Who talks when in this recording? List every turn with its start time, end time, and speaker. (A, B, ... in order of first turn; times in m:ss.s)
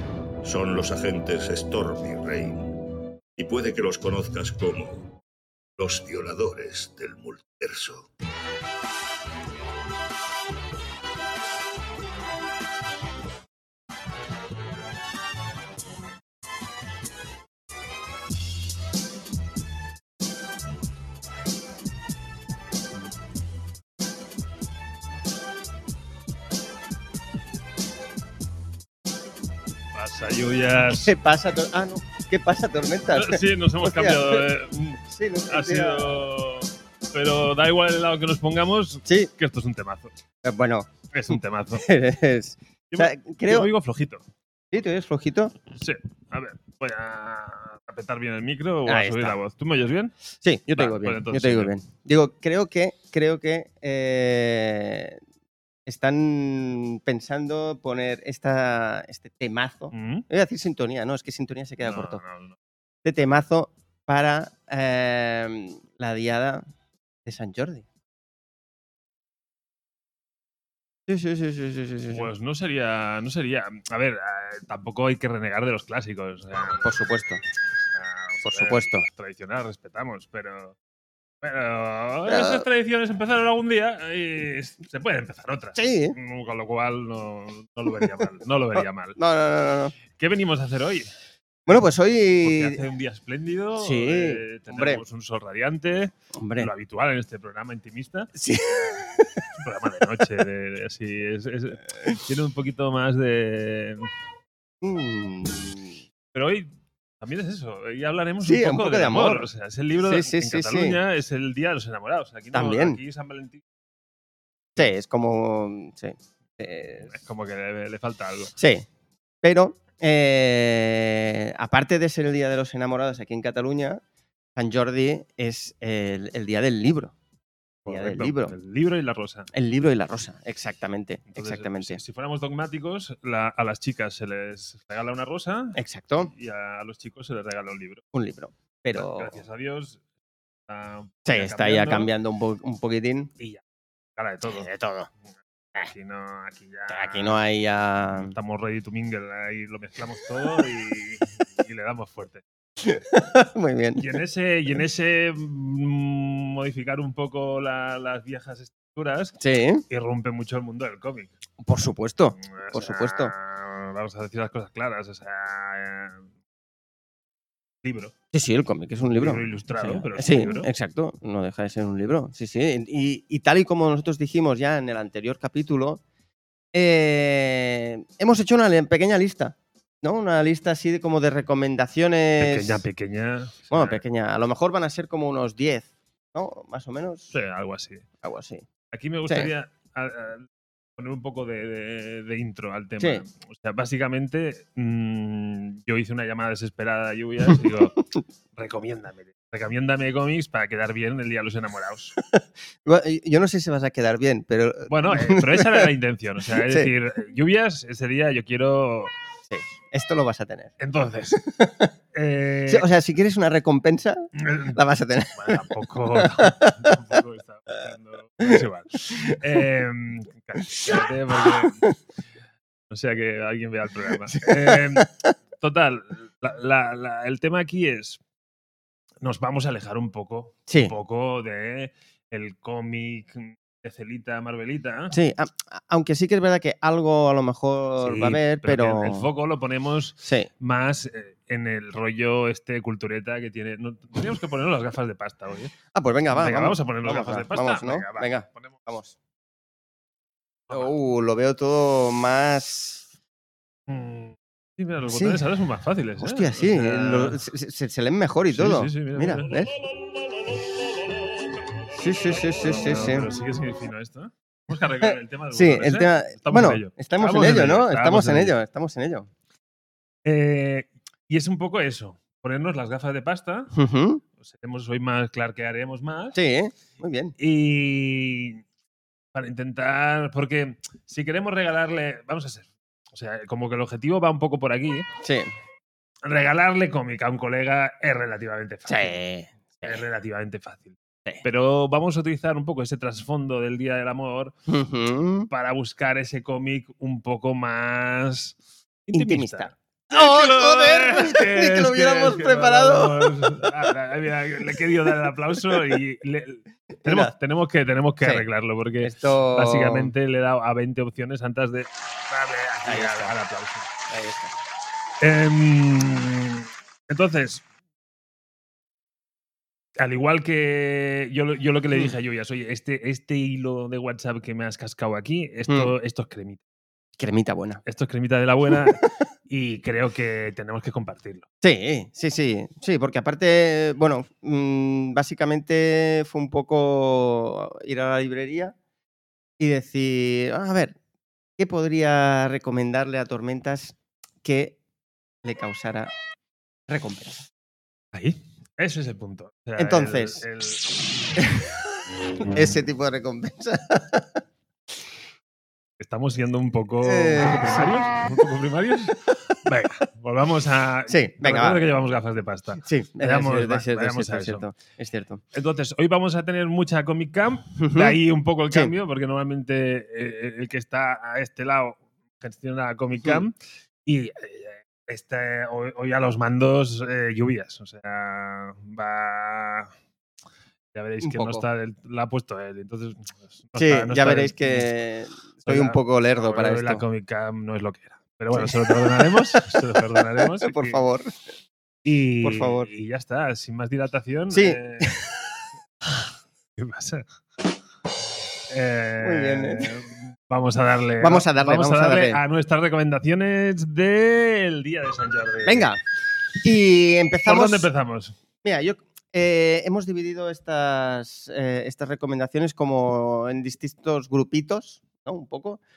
0:00.4-0:02.8 A
0:03.4-0:05.1 A
0:05.8-0:08.1 A
0:29.9-0:31.1 B
0:30.9-0:34.5 C
0:33.1-0:40.1 B
0:35.0-0:36.1 C
0:39.1-0:39.3 C
0:40.4-0:40.9 C
0:41.1-0:41.9 B
0:41.8-0:43.7 C
0:42.9-0:44.2 B
0:44.7-0:45.6 C
0:45.8-0:50.2 B
0:48.9-0:49.4 C
0:50.4-0:55.2 C
0:50.7-0:51.7 B
0:55.9-1:02.2 C
0:59.9-1:00.3 B
1:01.8-1:02.6 B
1:03.0-1:06.6 C
1:07.2-1:07.8 C
1:11.1-1:12.3 C
1:12.1-1:16.8 B
1:16.8-1:17.4 C
1:17.9-1:20.8 B
1:18.4-1:19.1 C
1:21.4-1:29.2 B
1:22.3-1:22.6 C
1:25.8-1:26.2 C
1:28.8-1:30.0 C
1:30.2-1:31.1 B
1:31.7-1:32.8 C
1:32.4-1:38.3 B
1:33.8-1:35.0 C
1:36.4-1:36.7 C
1:38.4-1:39.5 C
1:39.6-1:44.1 B
1:44.8-1:46.0 C
1:46.3-1:46.7 B
1:47.2-1:53.6 B
1:48.4-1:49.5 C
1:50.0-1:51.0 C
1:52.5-1:53.0 C
1:54.8-1:57.1 C
1:57.0-1:58.5 B
1:58.6-1:58.9 C
1:59.4-2:04.0 C
2:04.6-2:07.1 C
2:07.9-2:08.6 C
2:07.9-2:09.5 B
2:09.5-2:12.0 C
2:11.3-2:18.0 B
2:15.8-2:16.3 C
2:18.1-2:19.4 C
2:18.9-2:20.0 B
2:20.7-2:22.1 B
2:21.3-2:23.3 C
2:24.2-2:24.7 B
2:24.5-2:25.1 C
2:25.8-2:27.4 B
2:26.9-2:28.4 C
2:28.1-2:32.4 B
2:32.8-2:34.1 C
2:34.0-2:39.4 B
2:39.4-2:39.8 C
2:39.9-2:41.3 B
2:41.6-2:43.3 C
2:42.4-2:46.3 B
2:47.8-2:48.1 B
2:48.3-2:56.0 C
2:49.1-2:50.7 B
2:56.7-3:02.8 C
3:02.4-3:04.0 B
3:03.7-3:07.4 C
3:07.3-3:08.1 B
3:08.2-3:08.7 C
3:08.9-3:18.0 B
3:09.3-3:09.5 C
3:18.6-3:22.2 B
3:22.2-3:25.9 C
3:24.9-3:29.2 B
3:26.5-3:26.9 C
3:29.5-3:30.7 C
3:30.8-3:31.4 B
3:31.4-3:31.9 C
3:32.1-3:32.9 B
3:32.7-3:37.0 C
3:34.4-3:34.8 B
3:35.4-3:41.9 B
3:38.4-3:39.4 C
3:40.7-3:41.9 C
3:42.9-3:48.2 B
3:44.4-3:45.3 C
3:49.2-3:55.2 B
3:50.7-3:51.0 C
3:55.1-3:59.3 C
3:58.0-4:05.8 B
4:05.9-4:09.2 C
4:06.3-4:08.9 B
4:10.7-4:13.0 C
4:13.9-4:17.4 B
4:15.1-4:15.4 C
4:16.2-4:19.7 C
4:18.5-4:19.8 B
4:21.9-4:23.3 C
4:22.5-4:28.5 B
4:25.0-4:29.3 C
4:30.2-4:33.7 B
4:33.7-4:34.2 C
4:34.4-4:36.4 B
4:36.3-4:37.4 C
4:37.4-4:38.6 B
4:39.3-4:45.1 B
4:45.2-4:45.5 C
4:46.2-4:49.1 B
4:48.9-4:50.0 C
4:49.8-4:54.5 B
4:54.7-4:55.5 C
4:55.5-4:58.6 B
4:59.1-5:13.9 B
4:59.1-5:03.9 C
5:07.0-5:07.3 C
5:09.0-5:10.2 C
5:12.8-5:13.4 C
5:14.1-5:14.5 C
5:15.2-5:17.6 B
5:20.0-5:26.6 B
5:27.2-5:27.8 C
5:27.8-5:31.5 B
5:28.7-5:29.0 C
5:31.6-5:38.8 C
5:39.6-5:41.0 C
5:41.6-5:44.8 C
5:45.4-5:46.1 C
5:46.9-5:47.4 C
5:48.1-5:50.8 B
5:49.8-5:50.5 C
5:51.4-5:54.4 C
5:56.0-6:04.6 B
5:57.0-5:58.1 C
6:01.1-6:01.9 C
6:02.8-6:05.4 C
6:05.5-6:19.9 B
6:07.8-6:08.2 C
6:20.9-6:24.9 B
6:21.2-6:21.6 C
6:23.8-6:27.0 C
6:25.7-6:31.0 B
6:28.5-6:31.4 C
6:32.0-6:35.2 B
6:32.4-6:32.9 C
6:34.5-6:35.2 C
6:36.0-6:37.3 B
6:38.7-6:45.9 B
6:39.2-6:39.9 C
6:41.2-6:42.4 C
6:45.6-6:46.0 C
6:46.6-6:47.9 C
6:47.5-6:48.4 B
6:48.6-6:55.8 C